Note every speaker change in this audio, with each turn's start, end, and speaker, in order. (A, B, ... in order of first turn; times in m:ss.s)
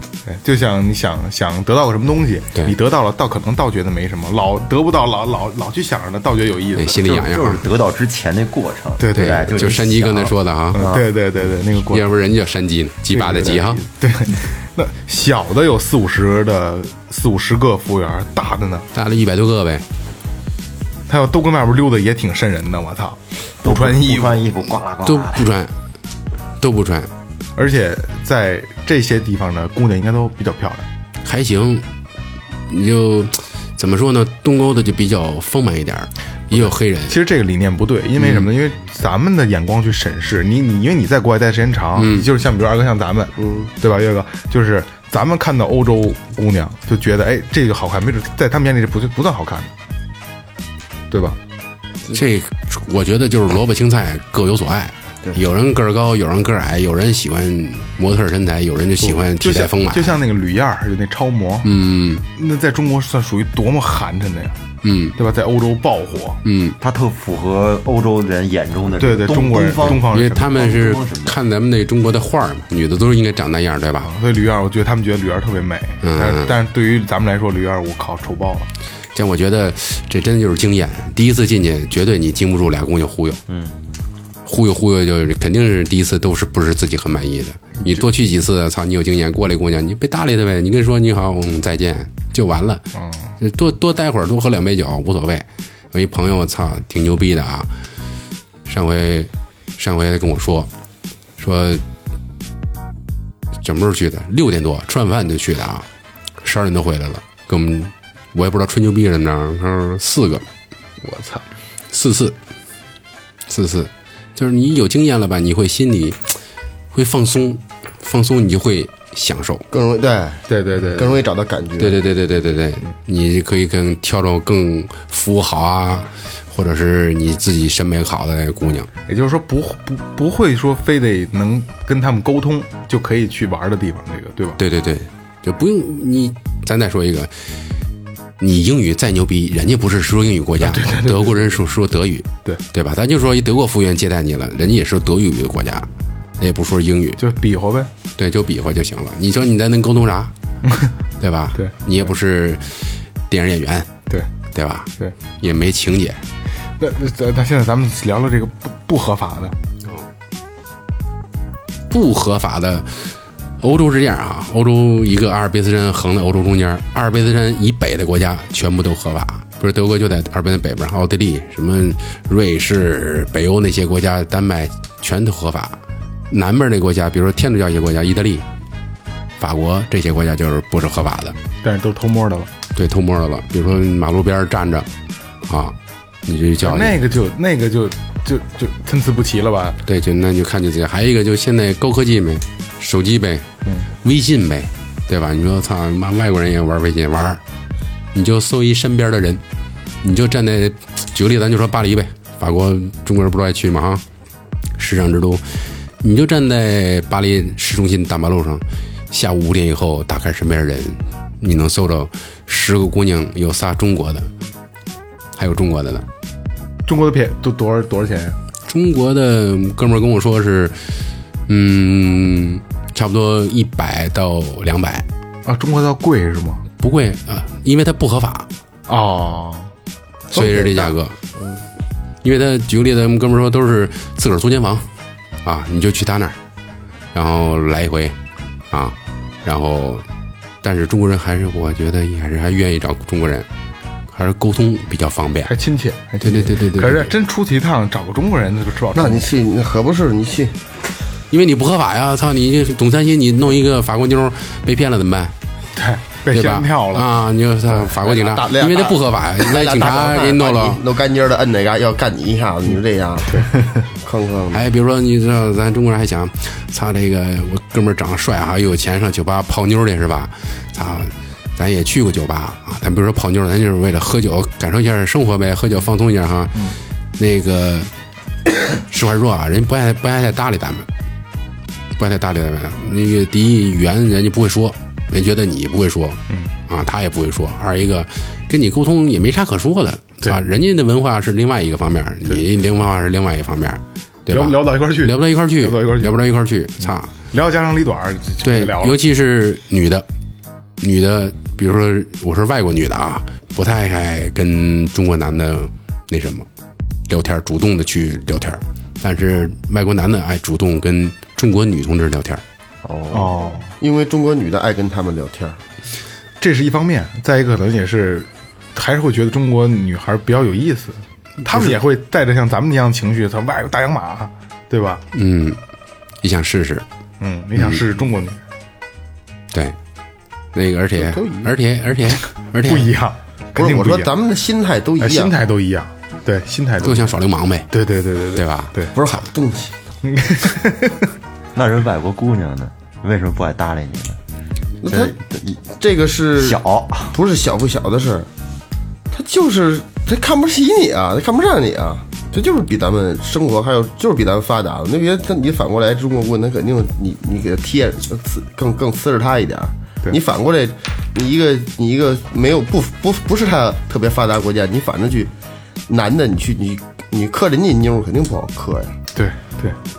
0:00.2-0:07.2 A
0:06.7-0:07.6 B
0:07.0-0:11.1 C
0:09.0-0:09.7 A
0:09.1-0:10.8 B
0:10.7-0:12.1 A
0:11.8-0:13.8 B
0:13.1-0:18.9 A
0:18.9-0:19.8 B
0:21.1-0:24.4 A
0:23.6-0:25.5 C
0:25.0-0:25.7 B
0:26.6-0:27.1 B
0:27.6-0:30.9 A
0:31.2-0:31.8 B
0:32.7-0:37.2 B
0:36.5-0:49.7 A
0:38.2-0:38.4 B
0:42.0-0:42.3 B
0:51.1-0:51.4 A
0:52.1-1:00.1 B
0:59.0-1:01.7 A
1:01.6-1:02.2 B
1:02.3-1:04.6 A
1:04.8-1:05.2 B
1:05.2-1:06.4 A
1:06.4-1:06.8 B
1:06.8-1:11.4 C
1:09.0-1:10.6 A
1:09.9-1:14.1 B
1:14.0-1:18.7 A
1:16.0-1:16.5 B
1:19.1-1:23.4 B
1:23.5-1:23.8 C
1:24.4-1:32.8 B
1:33.4-1:37.7 B
1:38.6-1:40.7 B
1:41.4-1:41.8 B
1:43.6-1:45.9 B
1:46.4-1:50.4 B
1:51.0-1:51.4 A
1:51.9-1:52.4 B
1:53.5-1:56.4 B
1:56.9-1:59.6 B
1:59.7-2:02.0 D
2:00.5-2:01.2 A
2:01.8-2:08.9 B
2:09.1-2:14.6 A
2:14.6-2:17.3 B
2:18.4-2:25.9 B
2:20.6-2:21.5 A
2:26.4-2:27.2 B
2:27.2-2:27.9 A
2:28.2-2:30.3 B
2:30.6-2:30.9 A
2:31.2-2:33.9 B
2:34.5-2:36.2 B
2:36.8-2:39.6 A
2:41.9-2:55.8 B
2:56.3-2:58.4 B
2:59.4-3:01.4 B
3:01.6-3:02.5 A
3:02.7-3:04.9 B
3:05.4-3:07.0 B
3:06.6-3:09.8 A
3:09.8-3:13.5 B
3:14.0-3:17.4 B
3:18.1-3:19.4 B
3:20.0-3:24.0 B
3:24.8-3:25.4 B
3:26.0-3:34.3 B
3:35.4-3:36.0 B
3:36.8-3:38.4 A
3:38.7-3:40.8 B
3:41.5-3:45.0 B
3:45.4-3:46.6 A
3:46.8-3:48.5 B
3:48.9-3:49.7 A
3:50.3-3:51.2 B
3:50.3-3:50.9 D
3:52.2-3:54.9 B
3:55.4-3:56.4 B
3:57.1-3:58.2 B
3:58.7-4:00.0 B
4:00.6-4:03.5 B
4:04.1-4:05.5 B
4:05.5-4:09.2 A
4:06.2-4:07.1 B
4:08.9-4:10.6 D
4:11.3-4:15.3 B
4:15.7-4:17.1 A
4:16.3-4:20.8 B
4:17.8-4:24.6 D
4:24.5-4:37.9 B
4:38.8-4:40.9 B
4:42.0-4:57.1 B
4:54.3-4:56.2 A
4:57.3-4:59.0 A
4:58.4-5:00.1 B
5:00.8-5:06.5 B
5:07.1-5:12.4 B
5:12.8-5:15.6 D
5:13.1-5:13.7 A
5:16.4-5:25.0 A
5:25.1-5:25.6 B
5:26.2-5:26.8 B
5:27.2-5:28.4 A
5:29.5-5:29.8 B
5:30.5-5:32.9 B
5:32.6-5:34.1 A
5:33.5-5:35.3 D
5:35.0-5:37.2 A
5:36.8-5:37.7 B
5:37.7-5:38.9 A
5:38.3-5:39.2 B
5:38.9-5:39.7 D
5:40.0-5:41.1 A
5:41.5-5:44.2 C
5:44.8-5:46.6 D
5:44.8-5:45.2 C
5:46.4-5:47.2 C
5:47.1-5:48.3 D
5:49.1-6:05.3 D
6:05.9-6:08.9 D
6:09.1-6:09.8 A